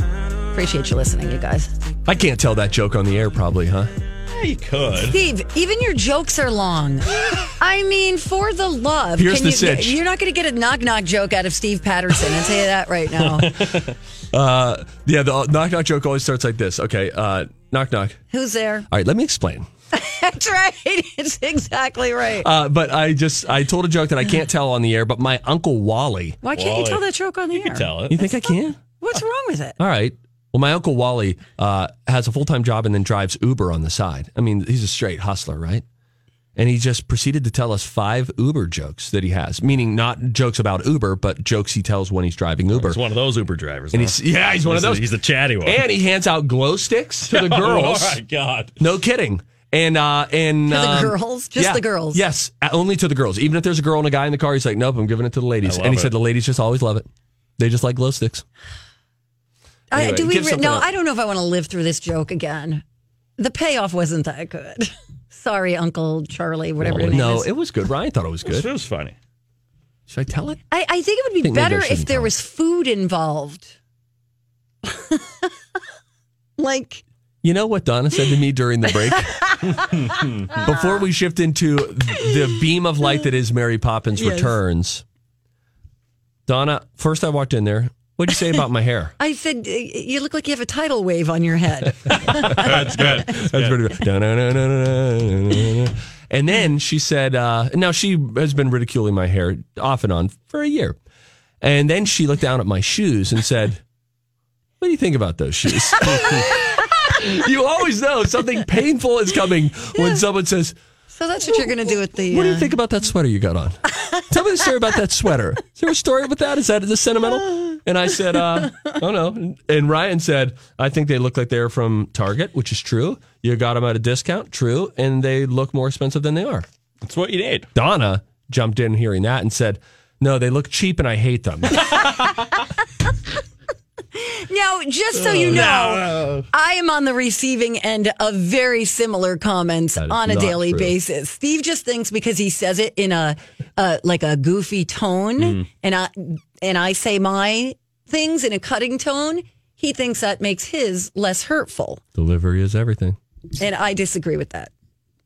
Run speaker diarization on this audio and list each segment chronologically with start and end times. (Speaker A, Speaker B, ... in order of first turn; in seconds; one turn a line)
Speaker A: 0.5-1.7
Speaker B: 2.1-3.9
Speaker C: 4.3-5.2
Speaker A: 5.0-13.5
Speaker B: 9.2-10.0
Speaker C: 13.2-13.9
Speaker B: 14.3-18.2
Speaker A: 18.3-18.9
Speaker B: 18.9-19.7
Speaker A: 19.9-22.5
Speaker B: 22.4-26.4
Speaker A: 26.4-27.9
Speaker C: 26.5-28.2
Speaker B: 28.1-28.8
Speaker A: 29.0-29.8
Speaker B: 29.8-35.8
Speaker B: 36.5-43.0
Speaker C: 42.7-45.8
Speaker B: 43.9-45.1
Speaker B: 45.6-48.2
Speaker C: 47.3-48.8
Speaker B: 48.8-57.1
Speaker A: 50.7-52.2
Speaker C: 55.6-56.1
Speaker B: 57.6-58.4
Speaker A: 59.9-62.8
Speaker B: 59.9-60.9
Speaker A: 63.4-67.5
Speaker B: 66.8-68.7
Speaker C: 68.5-69.1
Speaker B: 70.1-70.6
Speaker A: 70.7-73.7
Speaker B: 71.4-72.3
Speaker A: 74.8-75.5
Speaker A: 76.6-77.0
Speaker B: 77.4-79.3
Speaker A: 79.1-80.7
Speaker B: 80.5-85.0
Speaker A: 84.2-84.5
Speaker B: 86.5-89.1
Speaker A: 89.2-93.0
Speaker C: 92.2-93.8
Speaker B: 92.4-101.0
Speaker B: 101.6-103.8
Speaker B: 104.8-110.7
Speaker A: 106.0-106.6
Speaker A: 111.1-112.7
Speaker B: 111.5-126.7
Speaker C: 127.0-127.7
Speaker B: 127.7-131.9
Speaker A: 131.9-132.2
Speaker C: 132.0-132.3
Speaker A: 134.1-152.0
Speaker C: 135.3-136.4
Speaker B: 140.0-140.9
Speaker B: 152.2-153.2
Speaker A: 153.6-154.7